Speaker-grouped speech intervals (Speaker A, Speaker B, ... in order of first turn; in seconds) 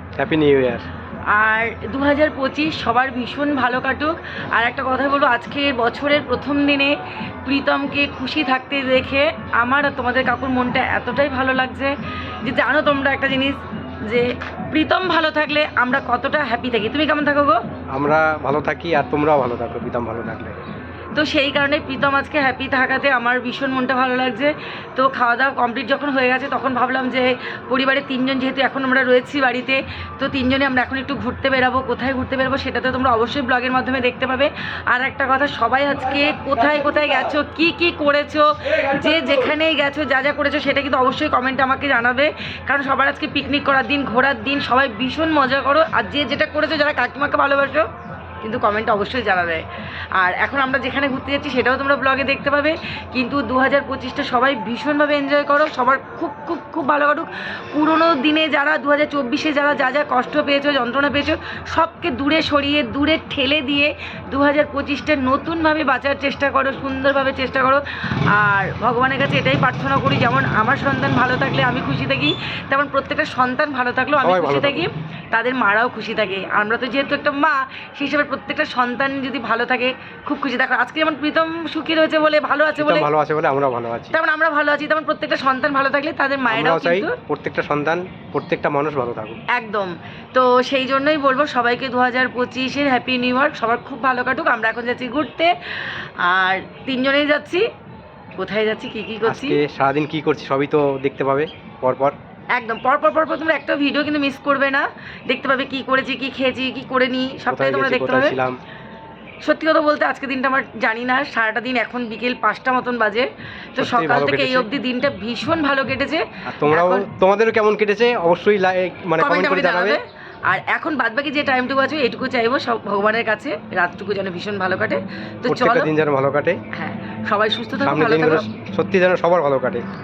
Speaker A: 0.2-0.9, 17.9-20.6, 74.2-74.9, 82.8-84.2, 86.5-89.4, 99.2-102.2, 107.5-108.6, 113.8-114.7, 116.5-120.0, 125.5-126.6, 127.8-129.8
Speaker B: 1.3-17.6, 21.1-47.9, 48.4-49.6, 50.2-83.1, 84.1-87.2, 89.5-97.7, 98.4-99.6, 102.5-108.4, 109.4-117.1, 119.2-125.9, 126.7-128.5